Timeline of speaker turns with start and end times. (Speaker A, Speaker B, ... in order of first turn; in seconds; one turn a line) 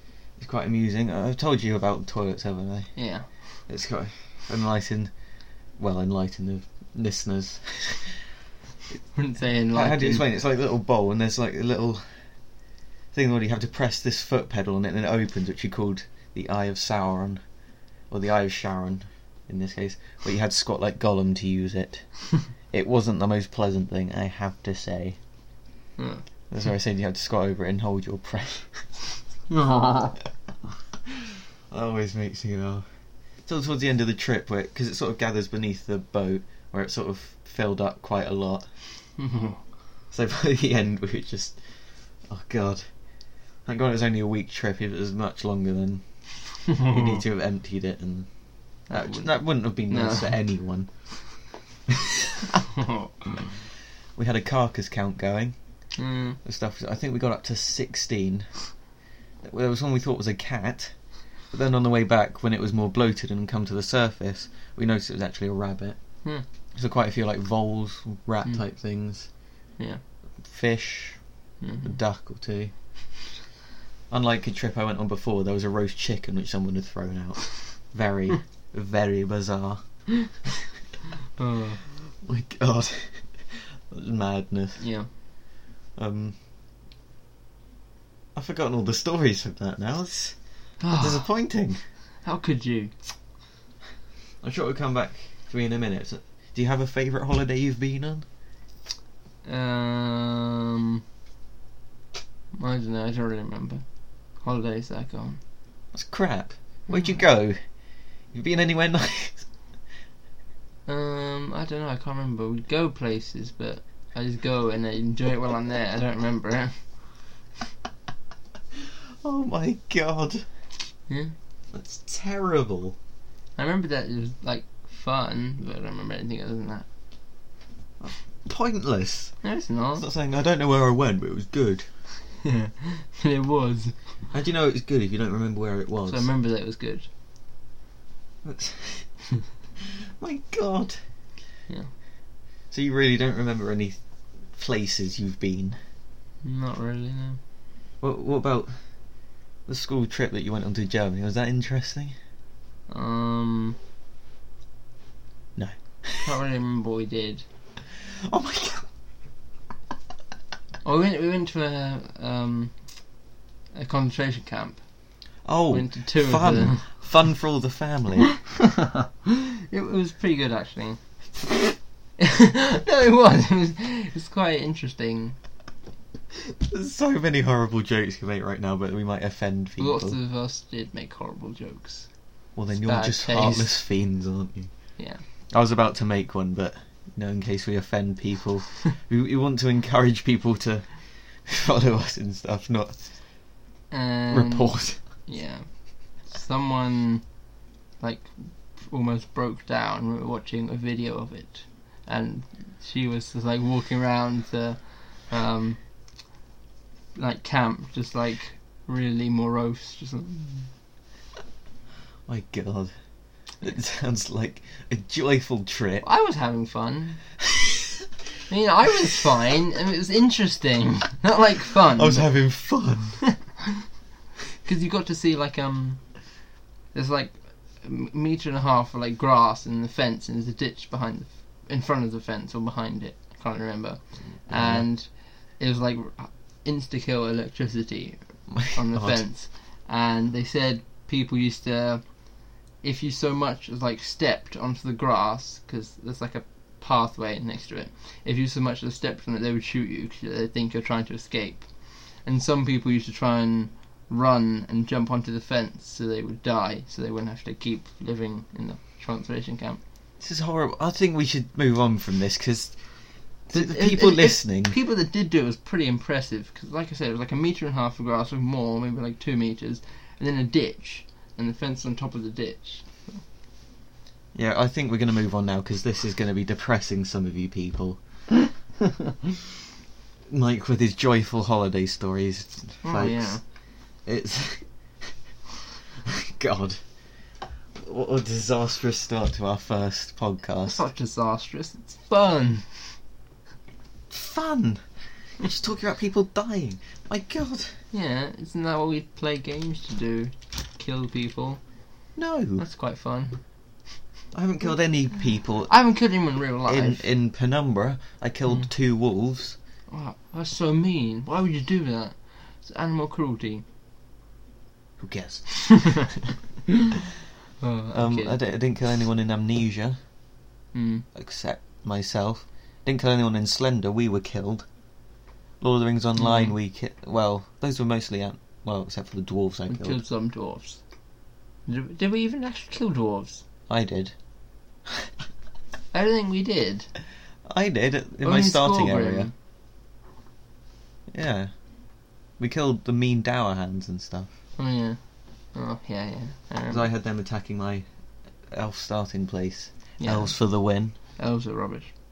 Speaker A: 0.4-3.0
Speaker B: 3.0-3.4
Speaker A: 3.5-5.1
Speaker A: 5.8-8.3
Speaker B: 9.1-10.3
Speaker A: 9.7-12.2
Speaker A: 13.1-17.4
Speaker A: 18.1-25.2
Speaker B: 26.0-26.2
Speaker A: 26.5-28.9
Speaker B: 29.5-30.1
Speaker A: 31.7-32.9
Speaker A: 33.5-38.7
Speaker B: 39.2-39.6
Speaker A: 40.1-41.6
Speaker A: 42.2-42.9
Speaker A: 43.6-51.4
Speaker B: 46.7-47.2
Speaker B: 48.9-50.4
Speaker B: 52.5-53.2
Speaker A: 54.1-55.6
Speaker B: 56.0-56.4
Speaker A: 56.4-58.7
Speaker A: 59.4-69.3
Speaker A: 70.4-71.3
Speaker B: 71.6-72.0
Speaker A: 71.8-72.8
Speaker A: 74.1-80.4
Speaker B: 81.4-81.8
Speaker A: 82.2-84.9
Speaker B: 84.8-85.1
Speaker A: 86.0-86.4
Speaker A: 88.3-91.8
Speaker B: 90.8-91.3
Speaker B: 92.2-93.0
Speaker A: 94.4-98.2
Speaker B: 99.4-101.0
Speaker B: 102.5-103.8
Speaker B: 104.4-105.4
Speaker A: 105.9-107.6
Speaker B: 106.9-107.2
Speaker A: 108.3-109.5
Speaker B: 110.9-116.8
Speaker A: 119.2-120.5
Speaker B: 121.1-121.3
Speaker A: 121.7-123.0
Speaker B: 123.6-126.9
Speaker A: 128.0-129.4
Speaker B: 129.4-130.0
Speaker A: 130.0-131.9
Speaker B: 132.4-134.0
Speaker A: 134.3-136.3
Speaker B: 136.1-137.1
Speaker A: 138.4-139.2
Speaker A: 140.2-141.0
Speaker A: 142.7-145.8
Speaker B: 146.4-147.4
Speaker A: 148.0-148.7
Speaker A: 149.7-152.2
Speaker B: 152.9-153.8
Speaker A: 155.6-156.3
Speaker B: 156.2-157.4
Speaker A: 158.2-158.9
Speaker B: 160.8-162.8
Speaker B: 163.7-164.8
Speaker A: 165.4-168.4
Speaker B: 165.7-166.9
Speaker B: 168.4-171.0
Speaker B: 172.2-175.4
Speaker A: 176.7-180.2
Speaker B: 179.8-182.1
Speaker A: 182.6-184.7
Speaker B: 182.8-183.7
Speaker B: 185.0-185.2
Speaker A: 185.5-193.2
Speaker B: 193.9-197.3
Speaker A: 194.3-195.1
Speaker B: 198.0-205.8
Speaker B: 207.2-210.7
Speaker A: 212.3-212.9
Speaker A: 213.6-216.1
Speaker B: 216.0-217.2
Speaker B: 218.5-222.3
Speaker A: 221.9-223.2
Speaker B: 224.6-226.4
Speaker B: 226.9-259.8
Speaker A: 234.5-234.9
Speaker A: 238.5-239.2
Speaker A: 260.2-262.8
Speaker A: 263.4-264.8
Speaker B: 263.5-273.2
Speaker A: 274.4-278.5
Speaker A: 280.3-283.4
Speaker B: 282.8-283.4
Speaker A: 284.0-284.7
Speaker A: 286.1-286.8
Speaker A: 287.8-290.8
Speaker B: 290.7-293.0
Speaker A: 294.1-294.9
Speaker A: 295.4-297.8
Speaker B: 297.9-301.6
Speaker A: 302.2-302.6
Speaker B: 302.6-303.4
Speaker A: 304.3-305.7
Speaker B: 305.7-307.1
Speaker A: 306.7-309.6
Speaker B: 309.9-313.6
Speaker A: 315.0-316.1
Speaker B: 317.6-318.4
Speaker A: 317.9-320.0
Speaker B: 320.7-321.1
Speaker A: 321.1-324.7
Speaker A: 325.6-330.0
Speaker B: 326.2-326.6
Speaker B: 329.7-330.8
Speaker B: 331.7-333.4
Speaker A: 333.7-334.1
Speaker B: 335.9-336.9
Speaker A: 337.5-339.3
Speaker B: 338.2-339.3
Speaker A: 341.1-341.5
Speaker A: 342.4-344.3
Speaker B: 344.6-345.0
Speaker B: 345.5-346.9
Speaker A: 346.7-347.9
Speaker A: 348.5-351.0
Speaker B: 350.0-351.9